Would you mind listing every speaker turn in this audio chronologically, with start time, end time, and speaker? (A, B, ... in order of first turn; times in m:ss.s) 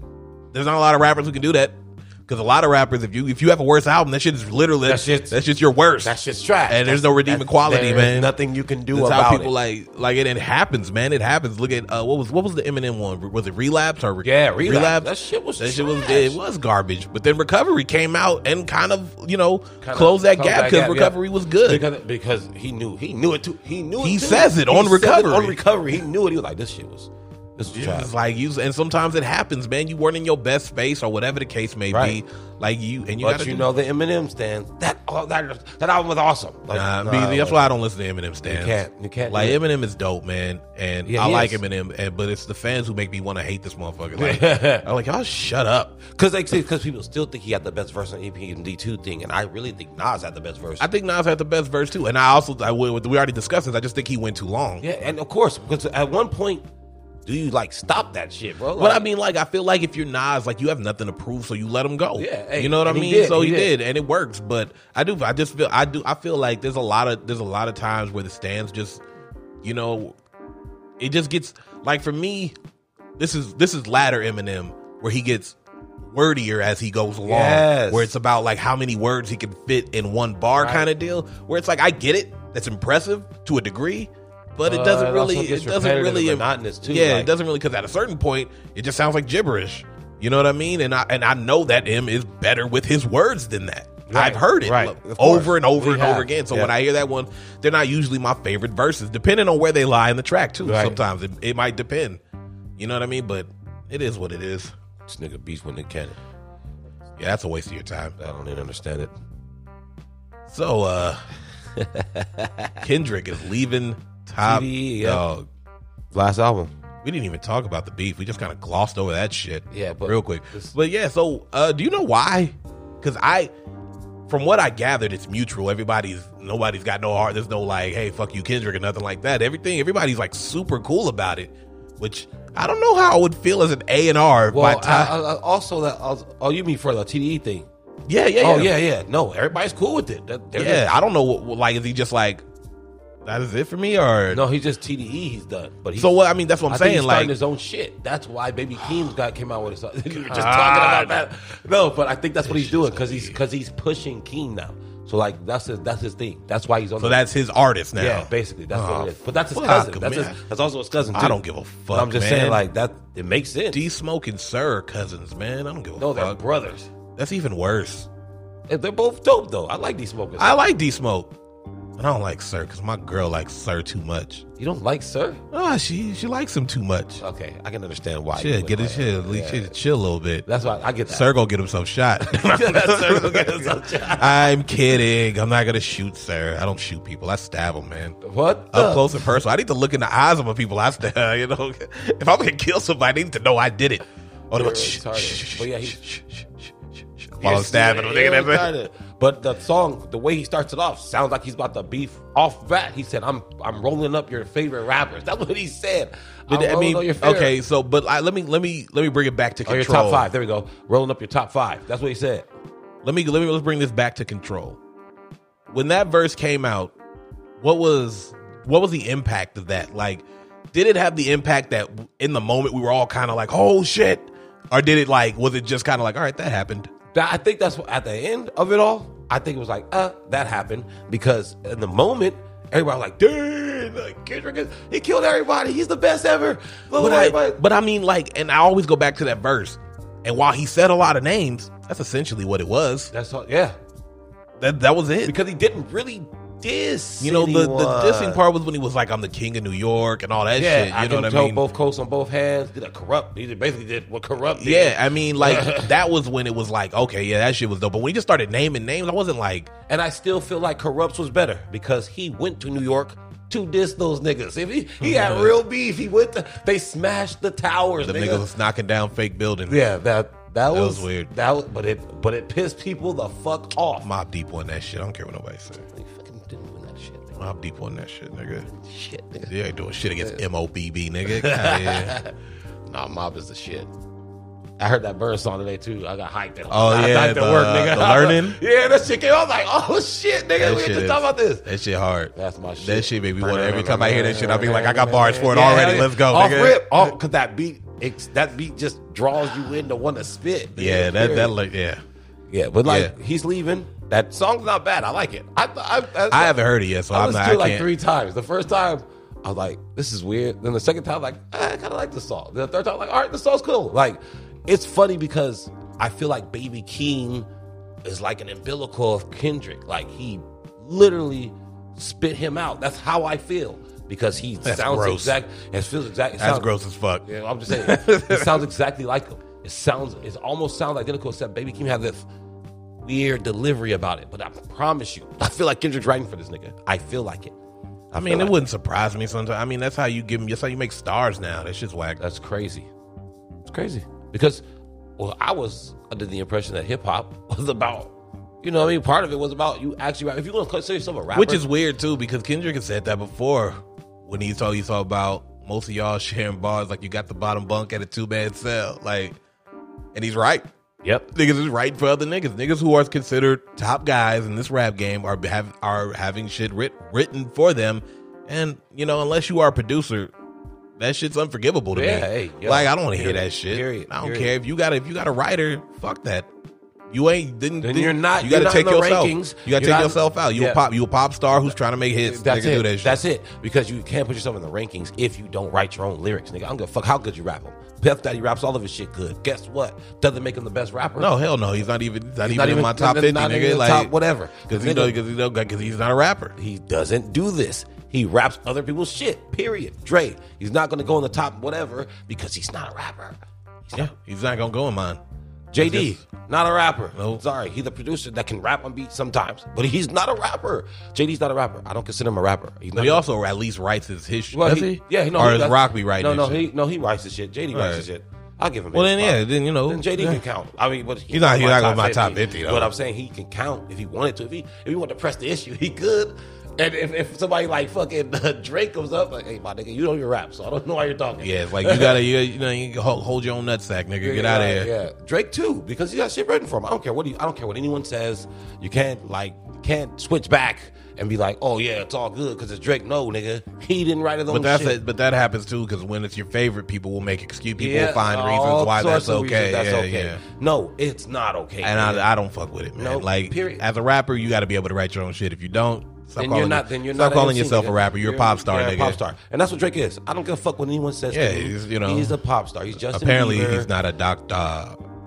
0:00.5-0:08.3 A
0:04.8-0:05.4 B
0:06.0-0:09.5 B
0:08.9-0:21.8 A
0:14.2-0:16.4 B
0:19.8-0:28.1 B
0:24.0-0:25.6 A
0:27.7-0:33.7 A
0:31.9-0:32.2 B
0:33.2-0:37.7 B
0:36.7-0:46.0 A
0:38.4-0:39.6 B
0:41.0-0:41.6 B
0:44.2-0:44.8 B
0:46.0-0:50.9 B
0:50.8-0:54.8 A
0:54.8-0:56.6 B
0:57.2-0:59.1 B
0:58.8-1:09.0 A
1:02.2-1:03.7 B
1:09.6-1:10.2 A
1:11.0-1:12.5 A
1:13.2-1:42.2 A
1:17.2-1:18.1 B
1:20.6-1:20.9 B
1:24.6-1:27.3 B
1:34.1-1:36.7 B
1:40.6-1:41.0 B
1:42.8-1:44.7 A
1:45.0-1:46.2 B
1:47.2-1:48.1 A
1:48.2-1:49.1 B
1:50.5-1:51.2 A
1:51.7-1:52.8 B
1:52.8-1:55.4 A
1:54.4-1:55.2 B
1:56.1-1:56.7 B
1:57.0-2:03.5 A
1:59.7-2:00.7 B
2:04.3-2:15.1 A
2:14.5-2:17.7 B
2:18.1-2:18.7 A
2:18.4-2:20.9 B
2:20.6-2:22.4 A
2:23.2-2:24.4 A
2:24.3-2:37.2 B
2:26.0-2:27.3 A
2:30.3-2:31.2 A
2:32.4-2:33.4 A
2:37.0-2:40.4 A
2:38.0-2:41.4 B
2:41.1-2:42.6 A
2:41.9-2:43.8 B
2:43.7-2:46.4 A
2:46.0-2:46.9 B
2:47.2-2:48.1 A
2:48.7-2:50.6 B
2:50.4-2:51.3 A
2:52.0-2:54.4 A
2:54.6-2:55.4 B
2:55.5-2:57.2 A
2:57.2-2:59.7 B
2:58.3-3:00.4 A
3:00.4-3:01.3 B
3:01.1-3:08.2 A
3:02.2-3:04.6 B
3:08.2-3:09.3 B
3:08.7-3:18.7 A
3:14.5-3:16.0 B
3:17.4-3:27.5 B
3:26.5-3:30.3 A
3:29.6-3:32.5 B
3:33.0-3:34.8 A
3:35.7-3:36.9 A
3:37.6-3:46.9 A
3:47.1-3:57.6 B
3:57.0-4:03.1 A
4:03.1-4:03.8 B
4:04.6-4:05.4 A
4:05.2-4:08.4 B
4:07.2-4:11.6 A
4:10.6-4:15.9 B
4:14.5-4:19.7 A
4:19.9-4:28.5 B
4:25.0-4:25.5 A
4:28.0-4:29.8 A
4:29.7-4:34.1 B
4:30.7-4:31.3 A
4:34.0-4:35.8 A
4:35.9-4:37.4 B
4:37.4-4:38.7 A
4:38.7-4:39.5 B
4:39.5-4:42.2 A
4:41.2-4:42.3 B
4:42.9-4:43.9 B
4:44.8-4:51.7 B
4:46.7-4:48.6 A
4:50.6-4:57.1 A
4:52.3-5:01.5 B
5:00.8-5:02.0 A
5:02.5-5:17.5 B
5:02.8-5:03.1 A
5:06.3-5:07.9 A
5:18.0-5:26.7 B
5:24.6-5:25.4 A
5:26.4-5:28.6 A
5:27.2-5:32.2 B
5:33.0-5:37.5 B
5:38.1-5:38.6 B
5:38.2-5:42.2 A
5:42.2-5:42.9 B
5:43.6-5:44.6 B
5:45.2-5:51.6 B
5:51.3-5:59.4 A
6:00.1-6:00.7 A
6:01.0-6:01.3 B
6:01.3-6:10.3 A
6:11.0-6:16.5 A
6:11.9-6:14.5 B
6:17.1-6:23.2 A
6:17.8-6:20.8 B
6:22.2-6:31.3 B
6:31.2-6:36.5 A
6:32.4-6:35.2 B
6:36.6-6:44.1 B
6:43.9-6:45.2 A
6:45.7-6:53.2 B
6:45.8-6:46.2 A
6:47.1-6:47.4 A
6:52.9-6:56.7 A
6:54.5-7:12.2 B
6:57.7-6:58.0 A
6:58.9-7:00.4 A
7:01.3-7:02.9 A
7:11.4-7:14.9 A
7:14.2-7:25.0 B
7:24.5-7:30.4 A
7:27.8-7:32.3 B
7:31.8-7:39.2 A
7:33.0-7:33.8 B
7:36.4-7:43.9 B
7:41.3-7:42.4 A
7:43.1-7:45.0 A